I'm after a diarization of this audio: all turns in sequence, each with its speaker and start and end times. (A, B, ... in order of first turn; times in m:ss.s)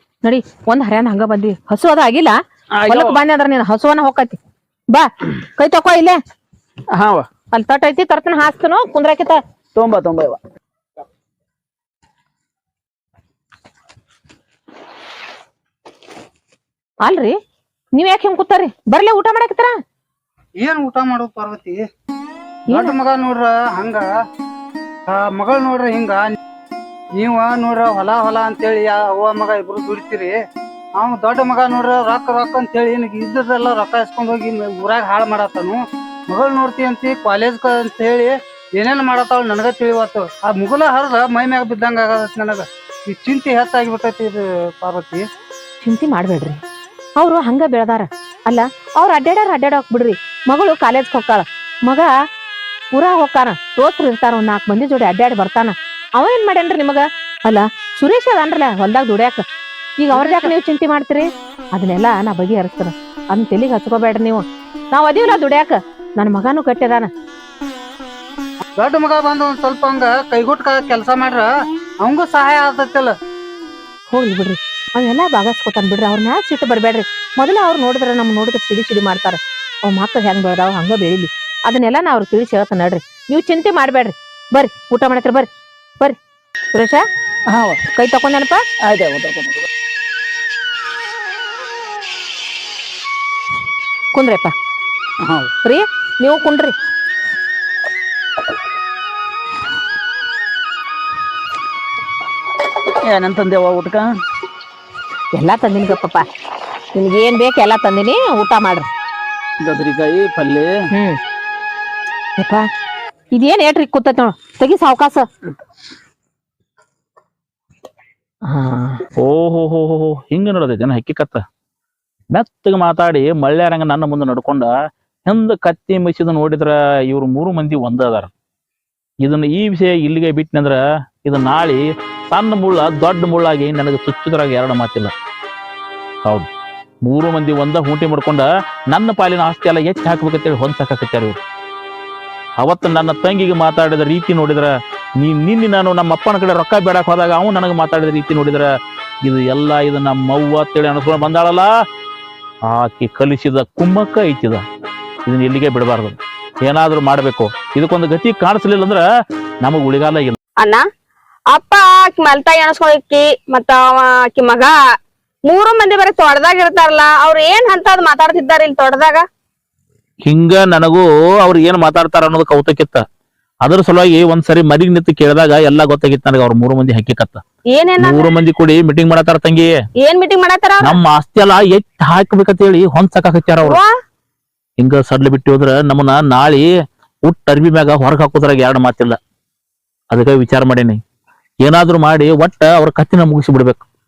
0:00.2-0:04.4 A
0:02.8-0:03.2 B
0:04.9-0:06.2 A
0:06.9-0:07.2 B
0:07.5-0:09.4 A
0:09.7-0:10.4 B
0:17.0-0:17.4 A
0:18.0-0:19.8 A
0:20.6-0:21.8 C
0:22.7-0:22.9 A
0:22.7-0:24.0 C
0:25.1-0:26.4 C
0:27.2-0:30.3 C
0:31.0-0:45.2 C
0:45.8-0:46.6 A
0:47.2-0:52.1 A
0:52.9-0:59.4 A
1:00.0-1:07.1 A
1:00.1-1:00.5 C
1:08.8-1:11.5 C
1:12.0-1:13.1 C
1:14.1-1:26.2 A
1:26.7-1:27.0 A
1:27.5-1:27.8 B
1:27.9-1:28.6 A
1:28.8-1:29.6 B
1:34.1-1:34.5 A
1:35.6-1:36.7 A
1:43.0-1:44.1 B
1:45.3-1:46.2 A
1:46.9-1:48.9 A
1:49.6-1:50.7 B
1:49.8-1:50.6 D
1:50.9-1:51.2 A
1:52.4-1:52.7 A
1:53.3-1:55.2 A
1:58.5-1:59.0 A
1:59.2-2:01.4 D
2:02.3-2:04.7 D
2:05.3-2:08.3 D
2:09.2-2:15.1 D
2:17.0-2:21.4 D
2:22.6-2:28.6 D
2:29.2-2:31.7 D
2:32.7-2:34.6 D
2:35.2-2:39.0 D
2:39.6-2:40.4 D
2:41.5-2:44.7 E
2:45.5-2:49.2 E
2:50.2-2:53.0 D
2:53.6-2:57.4 D
2:57.7-2:58.3 E
2:58.0-2:59.7 D
3:00.0-3:01.0 E
3:00.8-3:03.8 D
3:04.8-3:06.6 D
3:07.3-3:09.2 D
3:10.1-3:11.0 D
3:11.6-3:13.8 D